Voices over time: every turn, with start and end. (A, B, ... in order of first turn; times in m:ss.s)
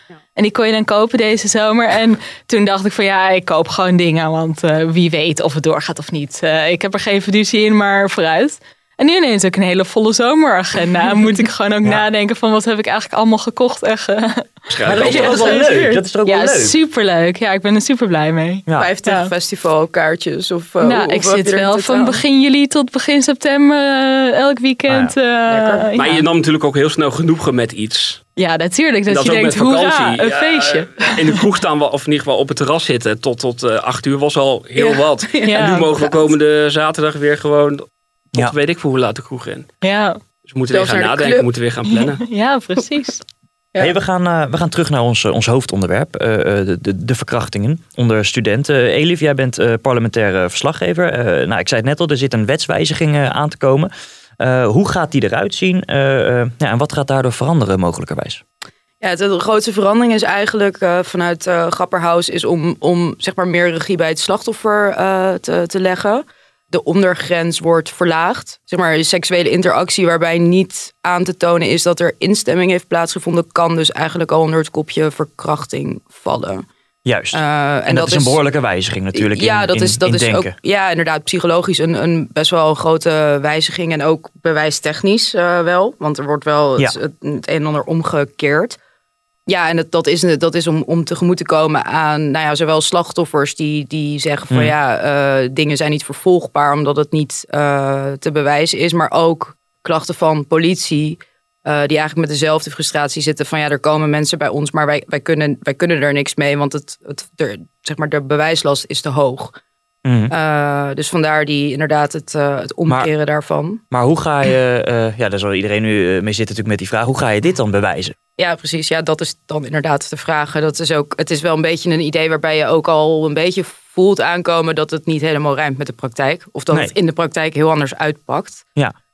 0:00.3-0:19.3 A
0:14.7-0:15.6 B
0:14.8-0:16.8 C
0:18.6-0:18.9 C
0:18.8-0:22.2 D
0:20.8-0:26.2 A
0:24.9-0:25.1 C
0:25.5-0:25.9 D
0:26.0-0:28.2 B
0:28.4-0:31.2 A
0:29.1-0:39.7 B
0:34.8-0:36.0 D
0:35.4-0:35.9 A
0:39.8-0:40.2 A
0:40.5-0:42.2 B
0:40.7-0:41.5 D
0:41.9-0:43.2 A
0:43.8-0:58.4 C
0:59.0-1:16.6 D
1:17.0-1:20.5 C
1:17.3-1:18.4 D
1:19.1-1:28.8 D
1:29.5-1:49.6 D
1:50.0-1:50.3 C
1:50.3-1:53.8 D
1:53.9-1:58.1 C
1:58.4-2:08.6 D